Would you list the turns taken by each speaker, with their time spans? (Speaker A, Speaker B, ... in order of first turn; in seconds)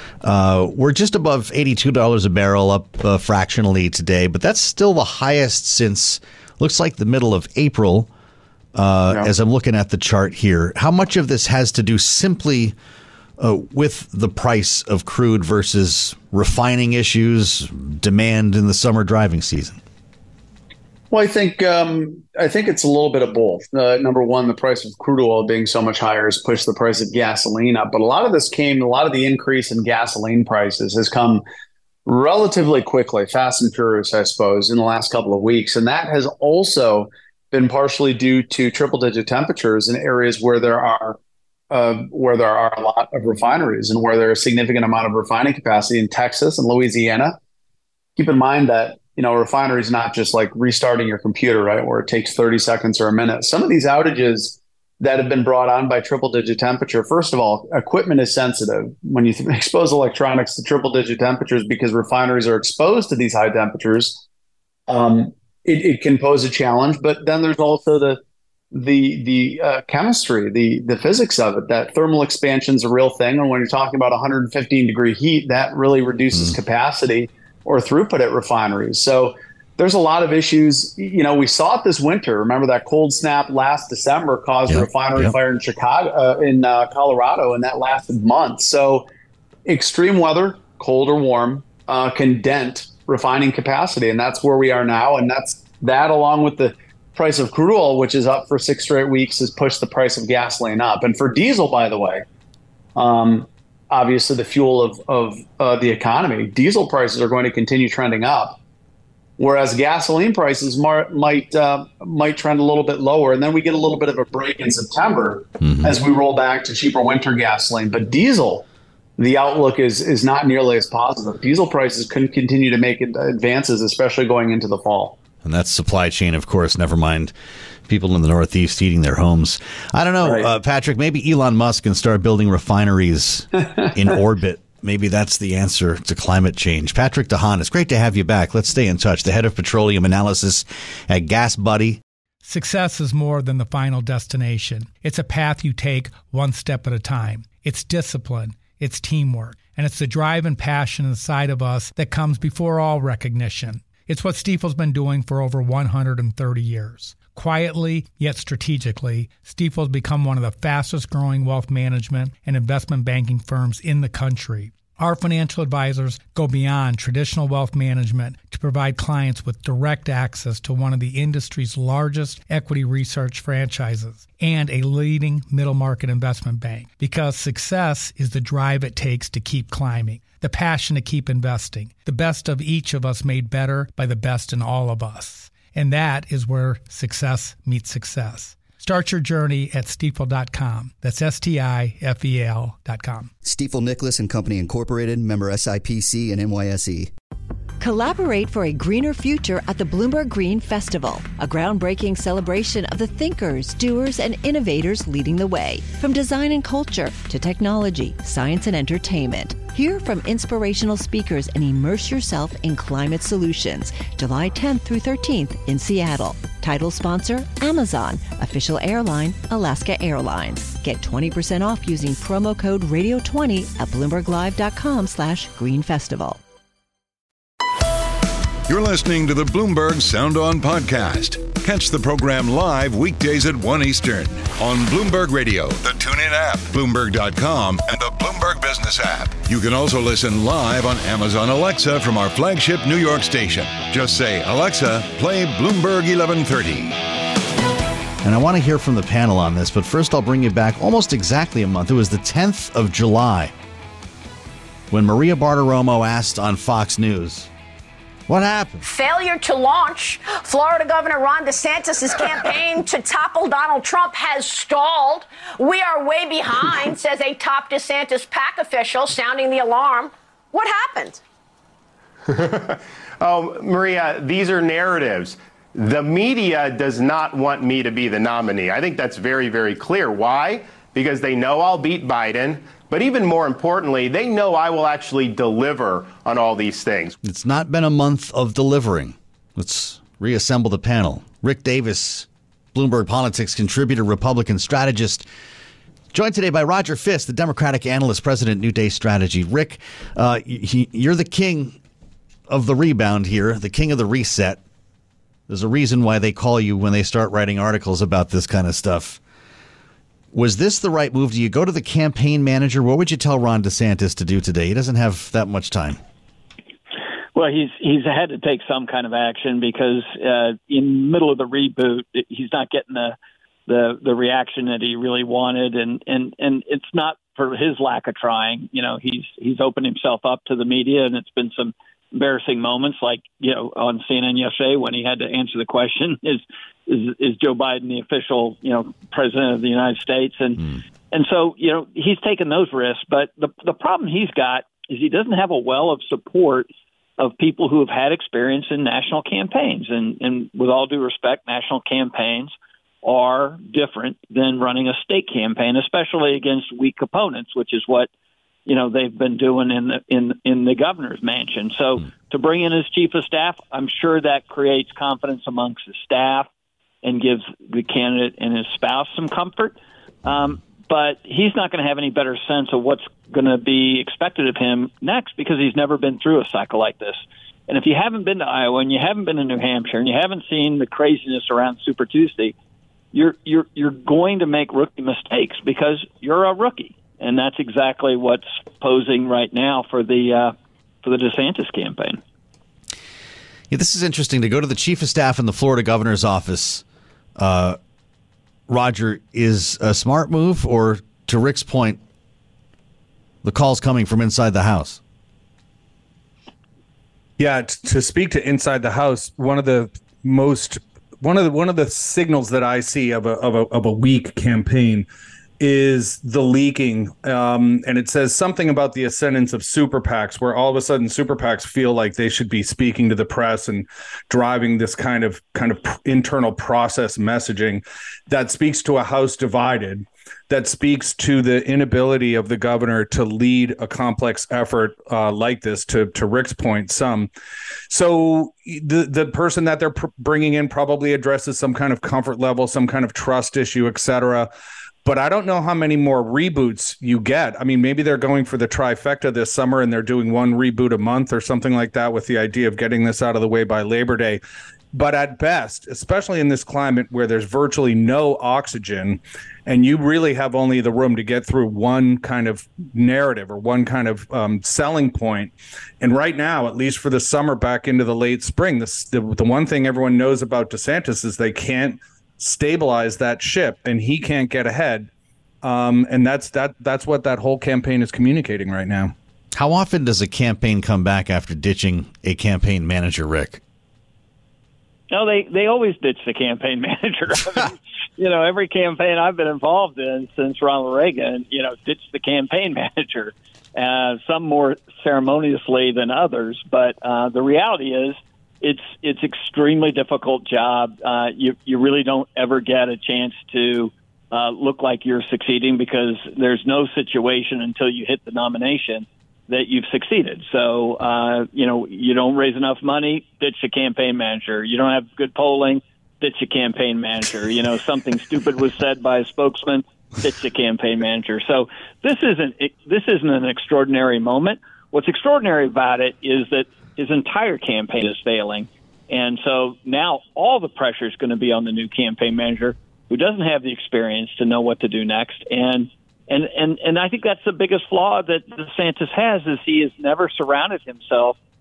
Speaker A: 0.2-8.1, 8.7-12.8, 13.4-19.8, 84.7-85.3, 115.6-116.0, 125.4-127.3, 127.9-142.0, 248.2-253.5, 254.9-257.5, 258.3-258.9, 287.2-295.3, 296.1-301.8, 302.5-304.6, 305.5-309.2, 310.3-316.0, 393.7-396.8, 397.4-397.8, 398.7-402.0, 403.4-405.0, 479.5-483.6
Speaker B: 21.1-31.4, 32.1-41.2, 41.7-47.4, 48.2-64.2, 64.9-68.2, 68.7-89.1, 89.7-102.2, 103.0-108.6, 109.4-118.7, 119.2-125.2
Speaker C: 142.4-193.3
Speaker D: 193.4-197.1
Speaker E: 197.8-226.4
Speaker F: 228.7-247.0
Speaker G: 258.8-271.2
Speaker H: 272.3-287.2
Speaker I: 317.4-323.2, 323.7-346.7, 347.2-352.5, 353.0-358.1, 358.7-366.5, 367.0-382.6, 383.1-392.2, 485.1-541.4
Speaker J: 407.4-415.1, 415.6-437.3, 437.9-444.5, 445.0-454.4, 454.9-475.1, 475.6-479.1